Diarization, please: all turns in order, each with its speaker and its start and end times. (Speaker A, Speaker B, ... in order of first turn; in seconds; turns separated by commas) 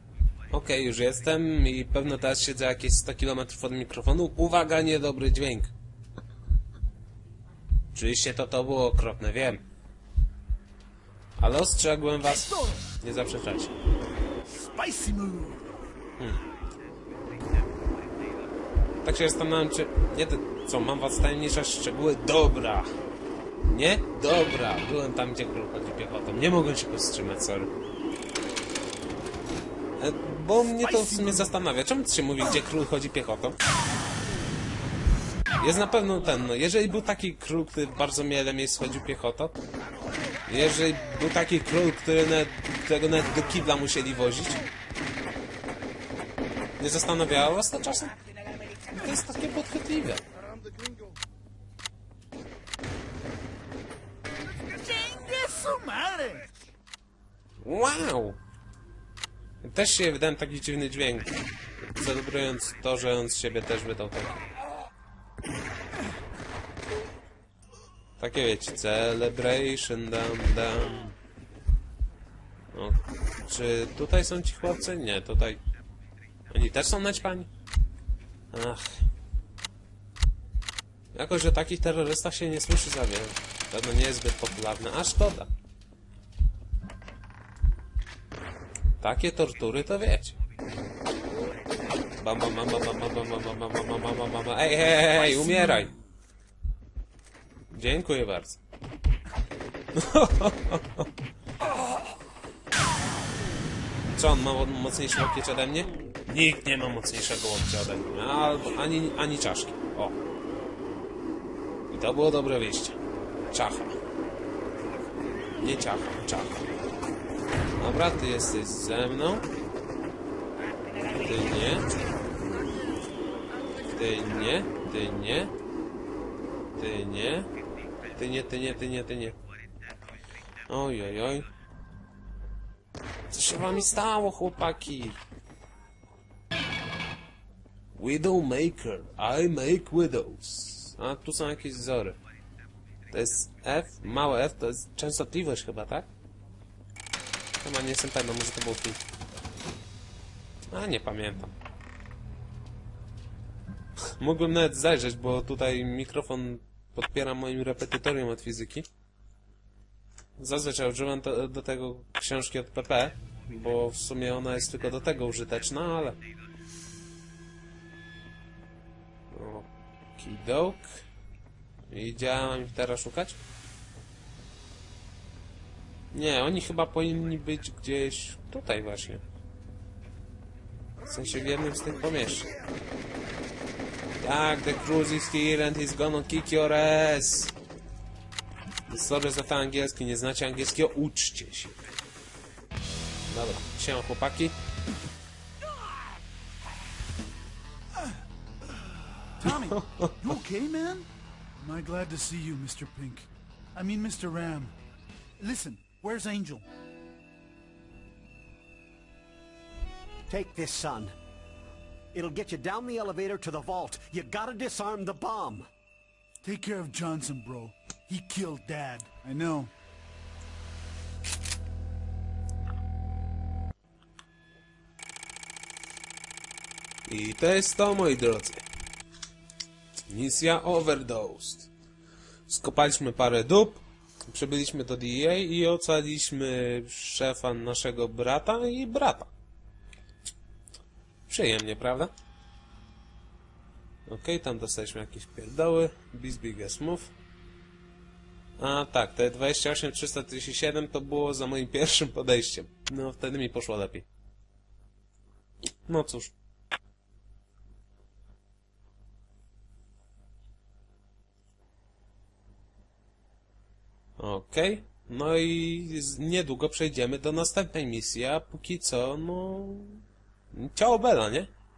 Speaker A: 0.5-5.7, Speaker A: 7.9-9.6, Speaker A: 11.4-13.7, Speaker B: 12.2-12.8, Speaker B: 14.7-15.7, Speaker A: 19.0-22.9, Speaker A: 23.6-27.7, Speaker A: 30.0-33.5, Speaker B: 30.8-31.5, Speaker A: 35.6-39.5, Speaker A: 40.5-44.6, Speaker A: 46.8-48.1, Speaker A: 48.9-50.2, Speaker B: 54.6-56.5, Speaker A: 57.6-58.4, Speaker A: 59.6-64.4, Speaker A: 68.2-71.1, Speaker A: 72.7-75.6, Speaker A: 76.5-77.5, Speaker A: 78.5-78.9, Speaker A: 81.1-85.5, Speaker A: 89.0-90.3, Speaker A: 92.2-95.9, Speaker A: 97.7-98.6, Speaker A: 100.0-101.0, Speaker A: 104.1-110.2, Speaker A: 111.9-113.0, Speaker A: 113.5-113.9, Speaker A: 115.6-116.6, Speaker A: 117.8-119.5, Speaker A: 121.1-121.9, Speaker A: 123.9-125.5, Speaker A: 126.7-127.5, Speaker A: 128.2-129.4, Speaker A: 130.7-131.5, Speaker A: 133.3-135.2, Speaker A: 137.9-142.2, Speaker A: 143.1-146.1, Speaker A: 147.6-149.0, Speaker A: 150.7-151.5, Speaker A: 154.2-158.9, Speaker A: 160.4-166.2, Speaker A: 169.3-170.9, Speaker A: 171.9-173.4, Speaker A: 176.1-179.2, Speaker A: 181.0-182.5, Speaker A: 184.2-187.5, Speaker A: 188.9-191.8, Speaker A: 193.3-194.5, Speaker B: 198.7-201.1, Speaker A: 199.7-200.1, Speaker B: 201.6-204.7, Speaker B: 205.4-206.7, Speaker C: 210.3-211.1, Speaker C: 212.1-215.7, Speaker B: 216.4-219.7, Speaker A: 227.1-228.6, Speaker A: 230.1-231.7, Speaker A: 232.5-239.3, Speaker A: 241.3-242.1, Speaker A: 244.1-247.1, Speaker A: 248.6-254.1, Speaker A: 255.9-256.3, Speaker A: 264.2-271.5